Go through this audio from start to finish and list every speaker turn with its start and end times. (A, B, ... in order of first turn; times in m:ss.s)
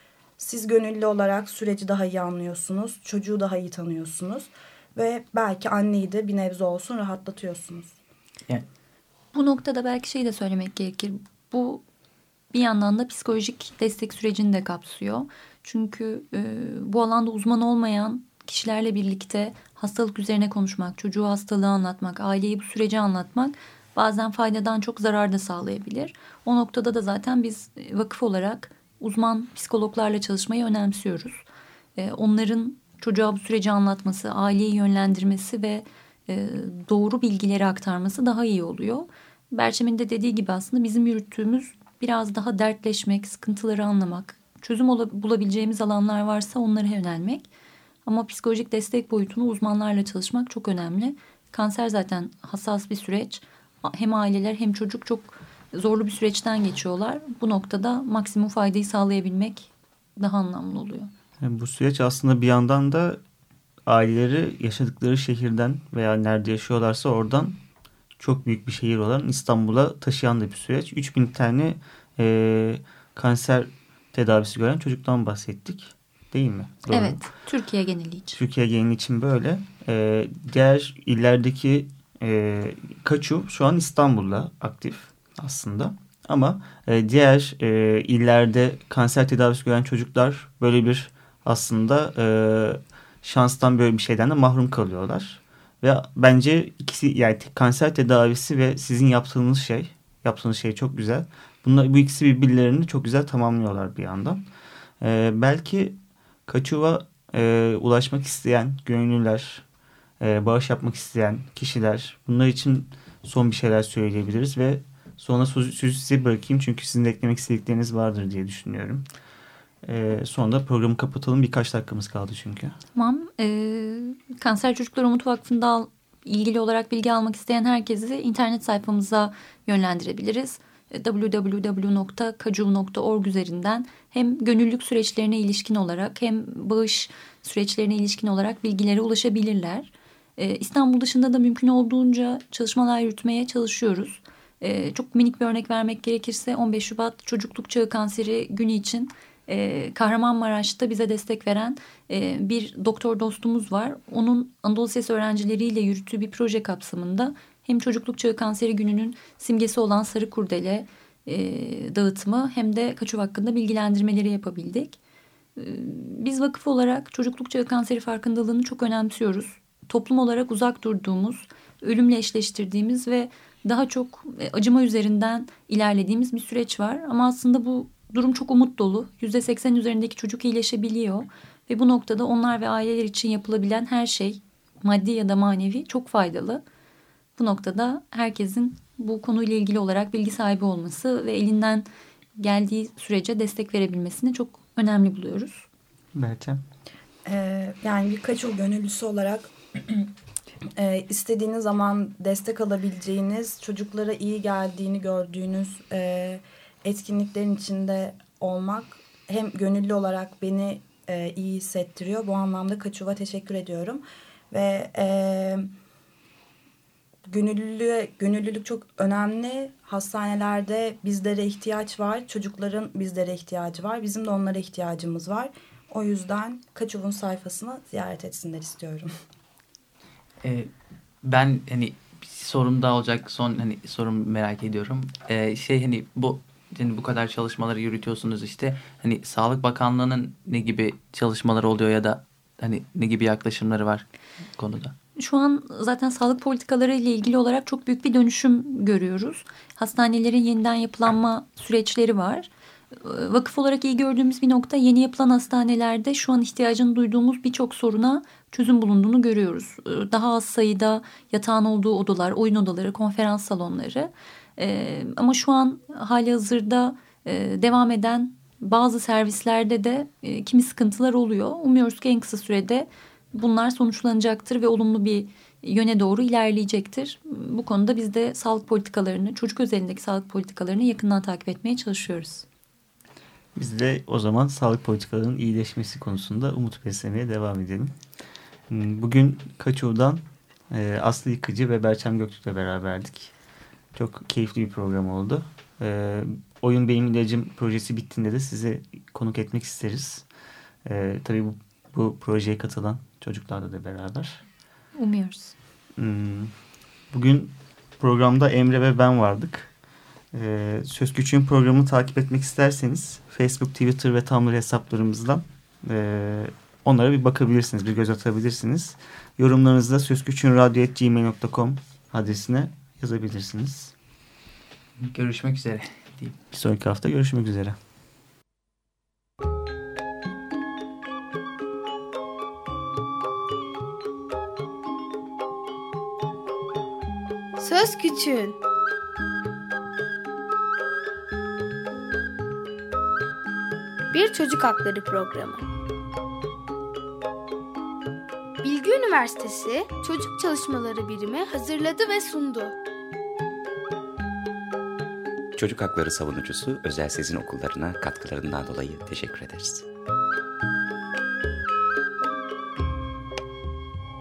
0:00.4-0:08.0 A
0:09.3-0:11.8 B
0:12.5-0:31.4 B
0:32.0-0:47.5 B
0:48.0-1:01.1 B
1:01.4-1:03.2 C
1:03.9-1:07.6 C
1:08.2-1:17.2 C
1:16.9-1:18.4 B
1:18.3-1:44.4 C
1:45.0-1:49.6 C
1:50.2-1:59.0 C
1:59.8-2:02.8 C
2:02.9-2:45.0 B
2:45.6-3:06.6 B
3:07.4-3:11.9 B
3:12.4-3:15.7 B
3:16.1-3:16.6 C
3:17.2-3:20.1 A
3:20.8-3:35.7 A
3:37.2-3:49.1 A
3:50.4-3:50.7 D
3:51.2-4:04.0 D
4:04.6-4:04.9 D
4:05.2-4:42.4 B
4:43.5-4:47.9 C
4:48.7-4:53.3 C
4:53.9-5:00.2 C
5:00.8-5:04.4 C
5:05.0-5:05.5 B
5:06.0-5:06.5 C
5:07.1-5:09.7 C
5:10.3-5:23.9 C
5:25.0-5:26.4 D
5:26.5-5:27.8 C
5:37.6-5:38.6 E
5:44.1-5:45.6 E
5:48.6-5:52.7 E
5:55.6-5:59.8 F